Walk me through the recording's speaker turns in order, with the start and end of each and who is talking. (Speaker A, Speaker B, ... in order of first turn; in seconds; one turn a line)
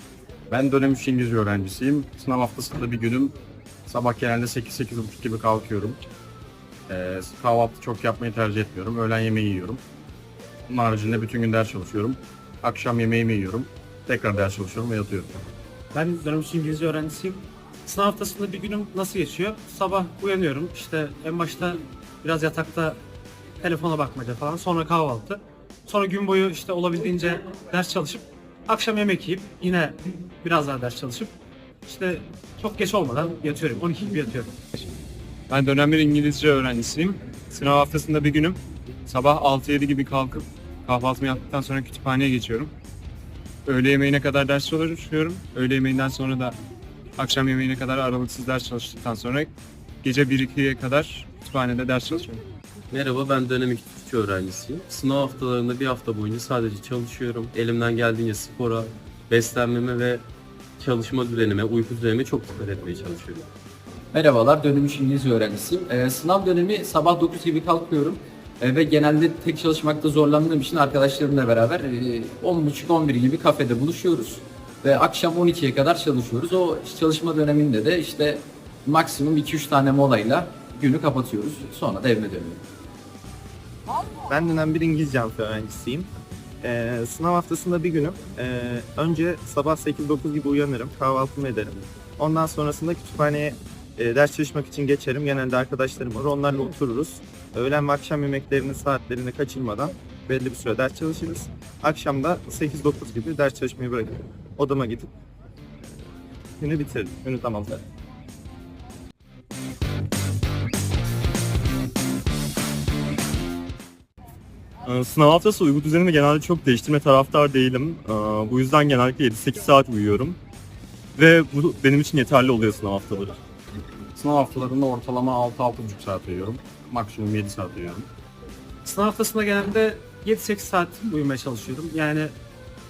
Speaker A: 0.5-3.3
Speaker A: 3.9-6.0
Speaker A: 6.9-9.8
Speaker A: 10.7-15.4
Speaker B: 15.9-23.0
Speaker B: 23.6-31.3
Speaker B: 31.8-34.5
Speaker C: 35.5-42.7
Speaker C: 43.7-46.6
Speaker C: 47.2-49.5
Speaker C: 50.0-52.4
Speaker D: 52.9-60.2
Speaker D: 60.8-63.5
Speaker E: 64.1-82.6
Speaker F: 84.3-86.1
Speaker F: 86.6-105.1
Speaker F: 106.6-107.8
Speaker G: 114.8-120.4
Speaker G: 121.1-123.4
Speaker A: 124.1-128.1
Speaker B: 128.8-132.3